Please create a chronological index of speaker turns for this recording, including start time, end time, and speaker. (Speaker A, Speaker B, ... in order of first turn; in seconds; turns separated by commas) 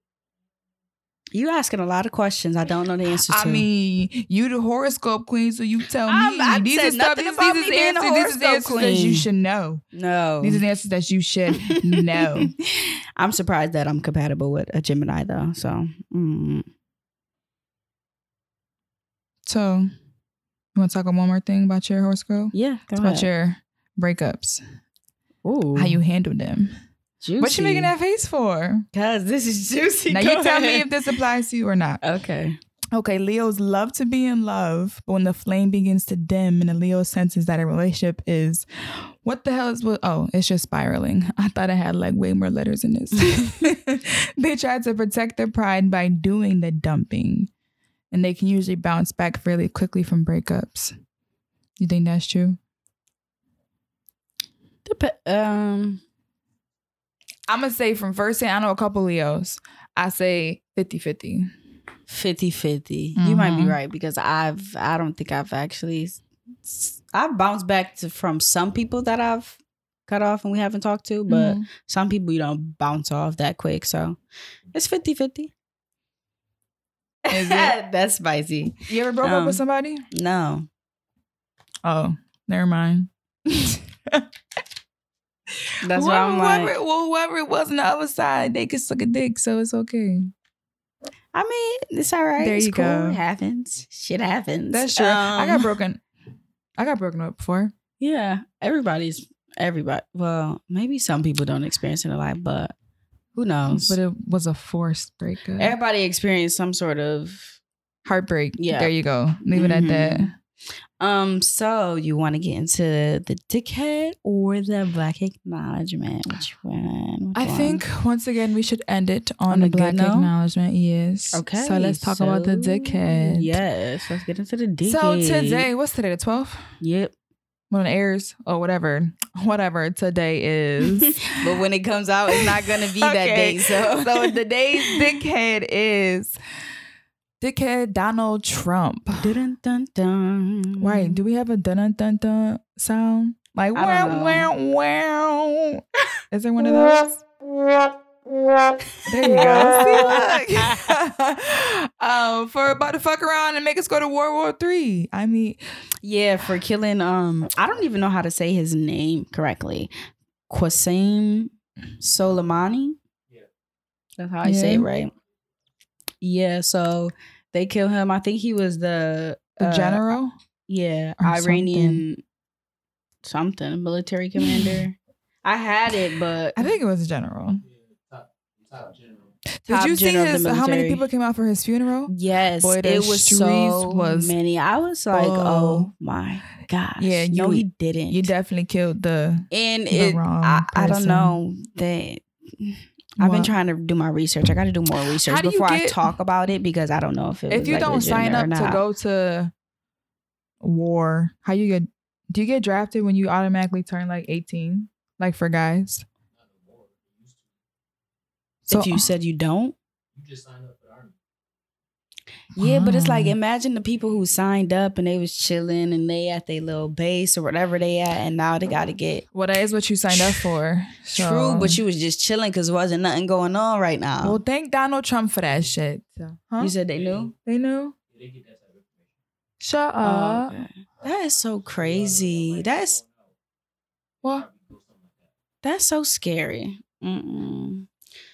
Speaker A: 1.3-3.6, Speaker B: 3.3-9.8, Speaker A: 6.0-9.3, Speaker A: 9.9-10.6, Speaker B: 10.4-12.5, Speaker A: 11.5-16.7, Speaker B: 19.4-19.9, Speaker B: 20.7-24.6, Speaker A: 22.5-23.3, Speaker A: 25.4-26.0, Speaker B: 25.8-26.7, Speaker A: 27.2-27.9, Speaker B: 27.4-28.9, Speaker A: 28.9-30.9, Speaker B: 30.1-32.0, Speaker A: 32.0-32.6, Speaker B: 32.9-47.5, Speaker B: 48.1-50.9, Speaker B: 51.8-52.6, Speaker A: 54.9-56.0, Speaker B: 57.5-61.5, Speaker A: 62.1-74.2, Speaker B: 63.2-63.8, Speaker B: 71.3-71.7, Speaker A: 74.7-75.5, Speaker A: 77.2-79.6, Speaker B: 77.3-77.7, Speaker B: 78.9-80.0, Speaker A: 80.1-80.7, Speaker B: 81.8-84.3, Speaker A: 85.8-86.7, Speaker B: 85.9-90.3, Speaker A: 91.3-95.7, Speaker B: 92.4-93.2, Speaker B: 94.7-96.0, Speaker B: 96.8-97.7, Speaker A: 98.0-102.7, Speaker A: 103.3-104.0, Speaker B: 103.7-105.8, Speaker A: 105.6-107.6, Speaker B: 108.0-110.3, Speaker A: 108.6-108.9, Speaker A: 109.5-110.3, Speaker A: 111.0-117.8, Speaker B: 117.3-123.5, Speaker A: 119.5-120.3, Speaker A: 121.3-125.7, Speaker B: 124.8-126.7, Speaker A: 126.8-127.1, Speaker B: 127.7-131.3, Speaker A: 131.1-135.1, Speaker B: 132.3-136.4, Speaker B: 137.4-139.3, Speaker A: 139.2-141.2, Speaker B: 140.8-147.2, Speaker A: 143.7-144.5, Speaker B: 149.1-155.6, Speaker A: 149.2-150.3, Speaker A: 156.0-159.9, Speaker A: 160.5-163.0, Speaker A: 164.2-165.1, Speaker B: 164.4-164.8, Speaker A: 166.2-170.0, Speaker B: 169.6-170.3, Speaker A: 170.7-172.2, Speaker B: 171.2-172.0, Speaker A: 173.2-176.6, Speaker B: 174.4-174.8, Speaker B: 176.6-177.6, Speaker C: 177.6-179.3, Speaker B: 179.6-184.3, Speaker A: 179.7-181.0, Speaker A: 182.1-188.3, Speaker B: 185.1-185.9, Speaker B: 187.0-191.4, Speaker A: 189.5-198.8, Speaker B: 193.2-193.5, Speaker B: 195.2-196.1, Speaker B: 197.5-199.5, Speaker B: 200.6-206.0, Speaker C: 206.3-207.5, Speaker B: 208.7-209.0, Speaker A: 208.7-209.8, Speaker C: 210.1-211.1, Speaker B: 212.6-213.3, Speaker A: 212.6-219.2, Speaker B: 219.3-221.8, Speaker A: 221.1-224.4, Speaker B: 224.2-226.7, Speaker A: 226.6-227.3, Speaker C: 226.9-227.4, Speaker B: 227.4-227.9, Speaker C: 228.1-229.1, Speaker B: 229.6-230.6, Speaker A: 230.0-233.0, Speaker C: 231.1-233.3, Speaker C: 234.2-235.3, Speaker A: 235.6-237.9